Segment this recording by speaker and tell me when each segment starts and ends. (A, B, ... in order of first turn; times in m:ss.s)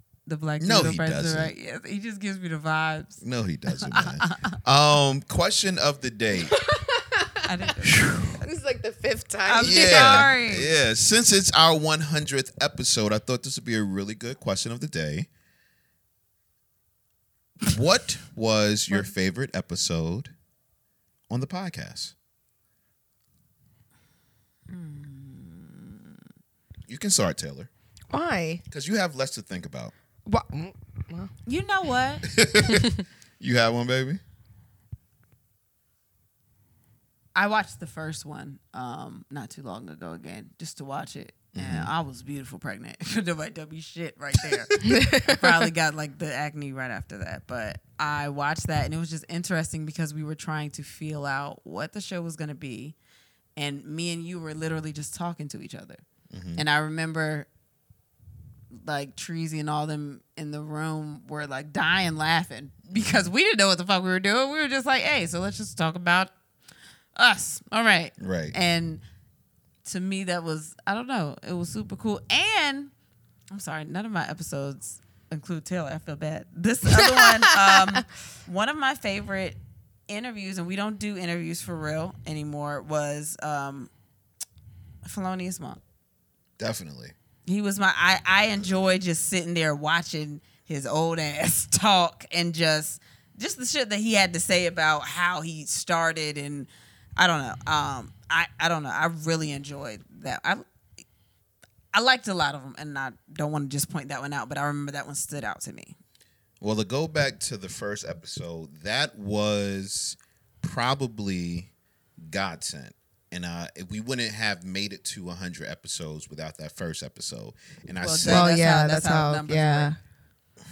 0:00.3-0:03.2 A
0:00.6-0:01.5 B
0:03.2-0:06.6 B
0:03.7-0:04.5 A
0:06.4-0:07.5 C
0:07.4-0:08.4 A
0:07.9-0:08.3 B
0:08.4-0:10.3 C
0:09.5-0:10.7 A
0:09.6-0:15.3 B
0:17.6-0:20.3 B
0:21.3-0:22.1 B
0:24.7-0:26.2 A
0:26.9-0:27.7 B
0:28.1-0:28.6 C
0:28.7-0:29.9 B
0:30.3-0:31.3 C
0:31.5-0:32.3 A
0:32.3-0:34.2 B
0:37.4-0:53.0 A
0:41.5-0:41.9 B
0:44.8-0:45.4 C
0:53.6-0:56.0 A
0:56.3-0:56.6 B
0:56.6-0:57.5 A
0:58.8-1:06.3 A
1:02.9-1:03.2 B
1:07.2-1:09.0 A
1:08.2-1:08.6 B
1:09.8-1:12.9 A
1:13.5-1:23.9 A
1:17.0-1:17.3 C
1:25.0-1:25.8 A
1:26.6-1:27.2 B
1:27.5-1:40.6 A
1:41.9-1:46.0 A
1:46.6-1:58.5 B
1:58.0-1:59.9 A
1:58.2-2:00.0 C